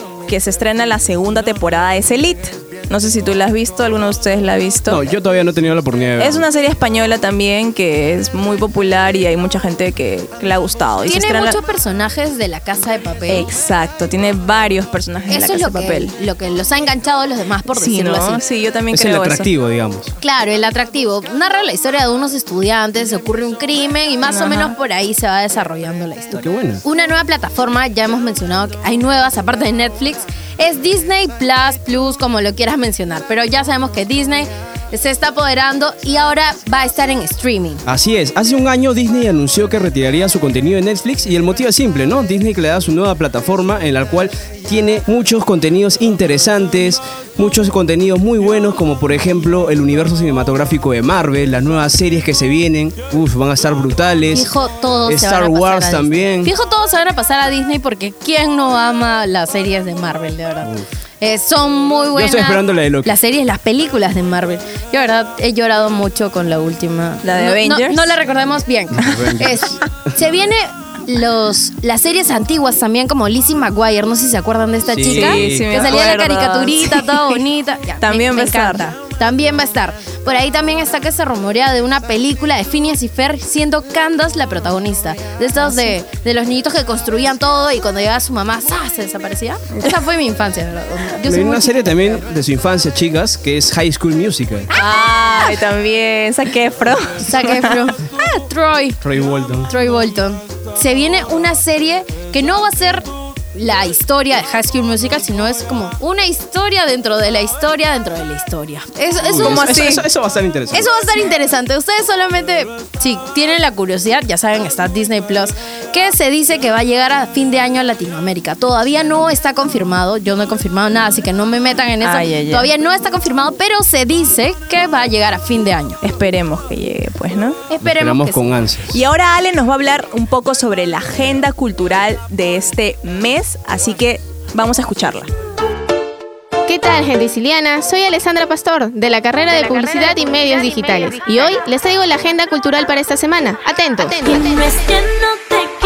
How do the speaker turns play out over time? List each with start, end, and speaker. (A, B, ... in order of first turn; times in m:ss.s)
0:00.3-0:05.1 A
0:04.9-0:06.4 B
0:06.2-0:11.6 A
0:11.0-0:13.5 C
0:13.3-0:16.1 A
0:15.3-0:18.4 C
0:17.7-0:19.5 A
0:18.9-0:20.1 B
0:20.2-0:37.8 C
0:24.2-0:24.8 A
0:26.4-0:26.8 B
0:37.9-0:54.5 B
0:54.3-1:32.2 C
0:55.1-0:56.5 B
1:02.1-1:03.1 B
1:07.2-1:08.1 A
1:08.9-1:09.8 B
1:14.8-1:16.2 B
1:15.1-1:17.4 A
1:18.0-1:18.8 A
1:25.6-1:25.9 A
1:31.2-1:34.7 B
1:34.7-1:37.9 A
1:34.8-1:35.5 C
1:37.2-1:39.0 C
1:39.0-1:39.7 B
1:39.6-1:49.8 C
1:49.2-1:50.9 B
1:49.4-1:50.0 A
1:50.7-2:06.0 C
2:02.0-2:02.7 A
2:06.0-2:07.6 A
2:07.7-2:08.4 C
2:07.8-2:09.0 B
2:08.9-2:15.3 A
2:16.7-2:24.5 D
2:19.5-2:21.6 C
2:24.0-2:24.6 C